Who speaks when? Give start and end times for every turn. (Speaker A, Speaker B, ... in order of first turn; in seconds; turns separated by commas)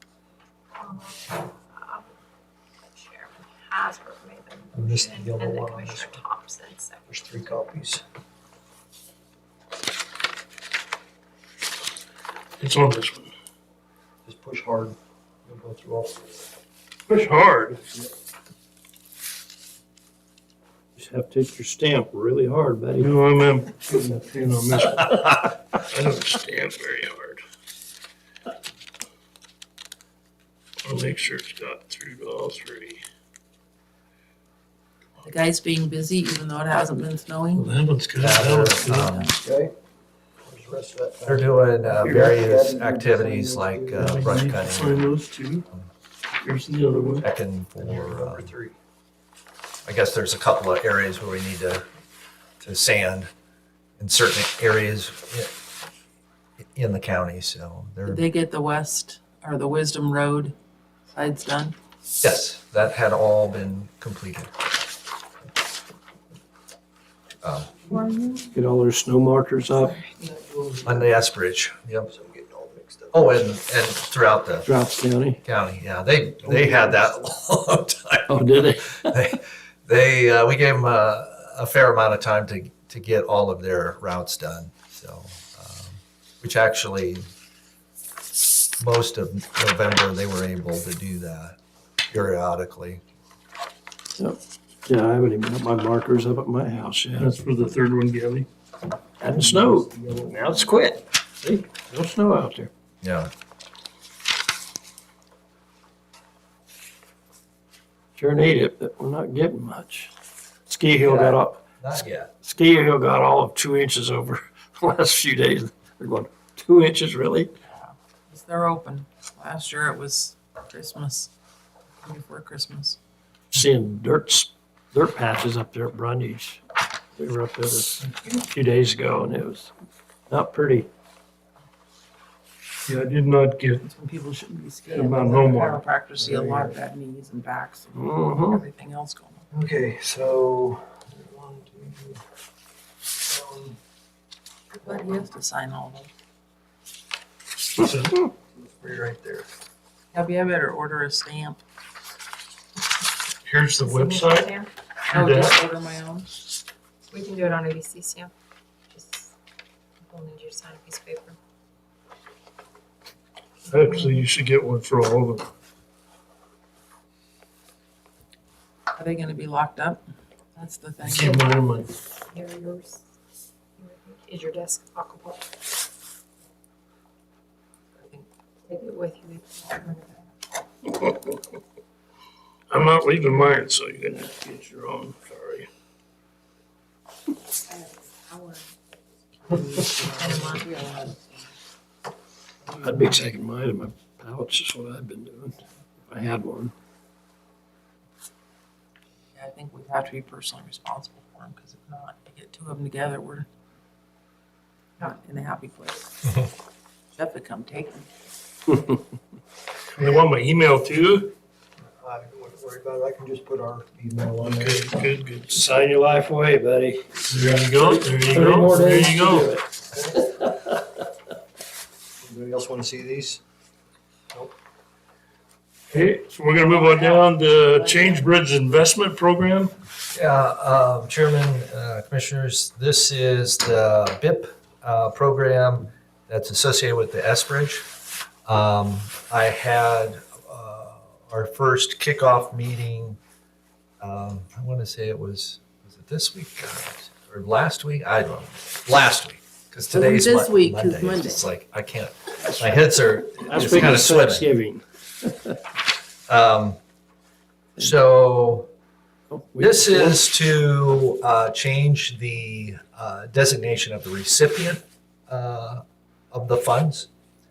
Speaker A: 0.8-2.0, Speaker A: 3.0-7.0, Speaker B: 4.7-6.2, Speaker B: 7.1-8.0, Speaker C: 12.6-13.3, Speaker B: 14.2-16.4, Speaker C: 17.1-17.9, Speaker D: 20.9-23.1, Speaker C: 23.0-27.4, Speaker C: 30.8-33.0, Speaker E: 35.2-37.7, Speaker C: 37.5-39.1, Speaker F: 38.2-39.3, Speaker E: 38.9-39.4, Speaker B: 39.4-39.7, Speaker B: 40.4-44.5, Speaker F: 41.2-45.0, Speaker C: 42.0-42.3, Speaker C: 43.9-45.6, Speaker C: 46.4-47.2, Speaker F: 47.2-48.5, Speaker B: 47.8-48.8, Speaker F: 49.9-51.9, Speaker F: 52.6-53.3, Speaker F: 54.0-55.5, Speaker F: 56.6-58.2, Speaker E: 58.0-60.5, Speaker E: 61.1-61.8, Speaker F: 62.2-64.5, Speaker F: 67.4-67.7, Speaker D: 68.5-70.0, Speaker B: 70.2-71.0, Speaker F: 70.8-72.1, Speaker B: 72.1-73.4, Speaker F: 73.1-74.7, Speaker D: 74.6-75.4, Speaker F: 75.4-87.2, Speaker D: 78.3-79.1, Speaker F: 88.8-91.6, Speaker F: 92.1-93.0, Speaker D: 94.2-97.3, Speaker C: 97.2-98.5, Speaker D: 99.2-102.7, Speaker B: 99.2-100.7, Speaker F: 103.0-103.3, Speaker D: 108.2-110.1, Speaker D: 110.7-111.6, Speaker F: 111.0-112.3, Speaker D: 112.4-117.5, Speaker E: 117.7-121.3, Speaker E: 122.0-123.0, Speaker D: 123.5-126.6, Speaker D: 127.2-129.7, Speaker D: 130.3-130.9, Speaker C: 132.9-133.8, Speaker E: 133.8-139.4, Speaker C: 134.9-135.8, Speaker B: 136.2-136.7, Speaker D: 137.9-138.6, Speaker B: 139.5-142.2, Speaker B: 143.3-143.8, Speaker E: 144.7-146.1, Speaker C: 147.8-148.2, Speaker B: 148.5-149.5, Speaker E: 150.1-151.6, Speaker C: 153.4-154.5, Speaker A: 153.8-154.7, Speaker E: 155.1-156.3, Speaker C: 155.1-155.6, Speaker A: 157.1-158.3, Speaker A: 158.9-159.2, Speaker A: 160.1-161.4, Speaker C: 163.7-165.5, Speaker E: 168.9-170.0, Speaker E: 170.5-171.4, Speaker C: 171.0-171.9, Speaker A: 171.2-171.5, Speaker A: 172.3-173.0, Speaker A: 173.8-175.4, Speaker E: 178.0-178.2, Speaker A: 178.7-180.0, Speaker C: 182.7-185.7, Speaker A: 187.7-188.6, Speaker E: 189.5-191.4, Speaker A: 190.2-190.7, Speaker E: 192.7-193.1, Speaker D: 192.8-196.7, Speaker E: 199.3-203.5, Speaker E: 205.0-206.1, Speaker E: 207.1-208.1, Speaker C: 209.9-211.3, Speaker B: 212.0-214.9, Speaker C: 214.4-215.6, Speaker D: 215.5-219.6, Speaker C: 217.3-219.5, Speaker B: 219.9-220.3, Speaker D: 220.2-220.5, Speaker B: 222.2-223.4, Speaker C: 225.9-229.7, Speaker E: 226.5-228.4, Speaker F: 230.1-237.8, Speaker F: 238.4-243.2, Speaker F: 244.0-254.5, Speaker E: 249.9-251.4, Speaker D: 253.4-255.6, Speaker F: 256.3-256.8, Speaker F: 257.8-258.7, Speaker D: 259.3-260.2, Speaker F: 259.6-267.1